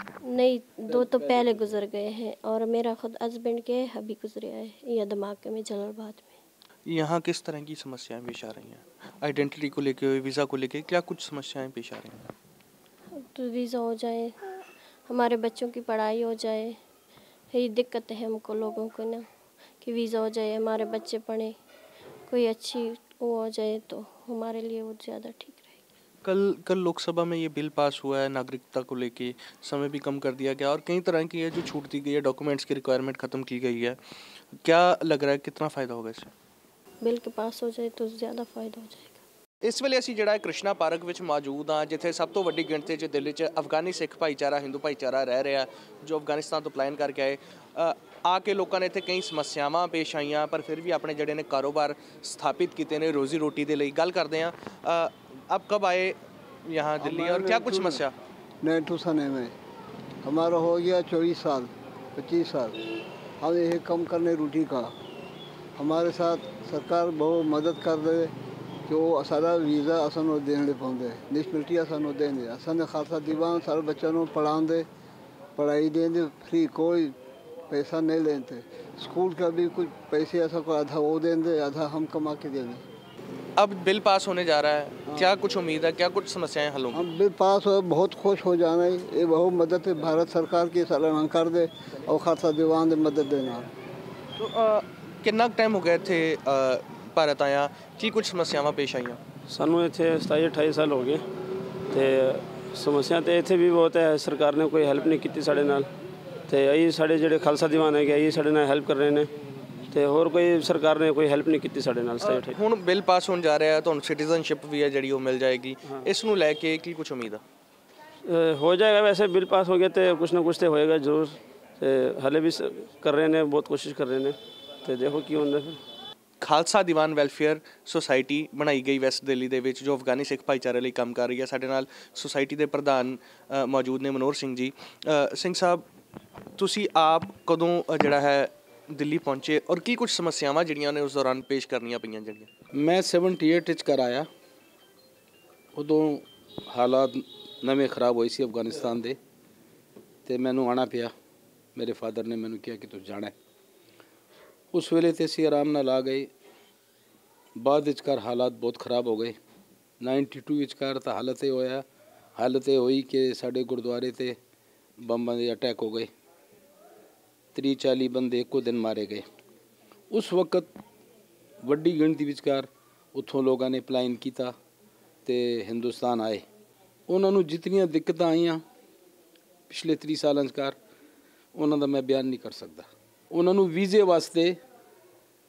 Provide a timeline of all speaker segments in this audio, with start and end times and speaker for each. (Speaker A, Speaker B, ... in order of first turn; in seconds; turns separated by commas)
Speaker A: 0.2-6.4, Speaker B: 0.9-1.7, Speaker C: 6.9-12.3, Speaker A: 13.3-14.4, Speaker A: 15.1-16.8, Speaker A: 17.5-19.2, Speaker A: 19.8-21.5, Speaker A: 22.3-25.7, Speaker C: 26.3-34.0, Speaker C: 34.6-36.3, Speaker A: 37.0-39.2, Speaker C: 39.6-56.2, Speaker C: 56.7-58.1, Speaker B: 57.0-58.0, Speaker B: 58.6-59.5, Speaker B: 60.2-62.8, Speaker B: 63.4-64.9, Speaker B: 65.8-68.3, Speaker B: 68.9-74.9, Speaker B: 75.6-77.1, Speaker B: 77.7-82.8, Speaker C: 83.6-87.1, Speaker B: 86.9-93.7, Speaker C: 94.4-99.2, Speaker D: 99.5-101.3, Speaker D: 101.9-105.9, Speaker D: 106.5-109.3, Speaker D: 109.9-112.5, Speaker C: 112.2-117.4, Speaker D: 118.2-125.8, Speaker C: 126.4-135.8, Speaker C: 136.6-142.5, Speaker E: 142.7-144.3, Speaker E: 145.8-149.2, Speaker E: 150.3-151.1, Speaker E: 151.8-153.3, Speaker E: 154.7-156.3, Speaker E: 157.6-159.4, Speaker E: 160.0-161.8, Speaker E: 162.4-164.4, Speaker E: 165.0-166.1, Speaker E: 167.6-169.3, Speaker E: 170.1-170.7, Speaker E: 171.6-174.5, Speaker E: 175.3-176.5, Speaker E: 177.1-178.6, Speaker E: 179.7-180.8, Speaker E: 181.6-184.6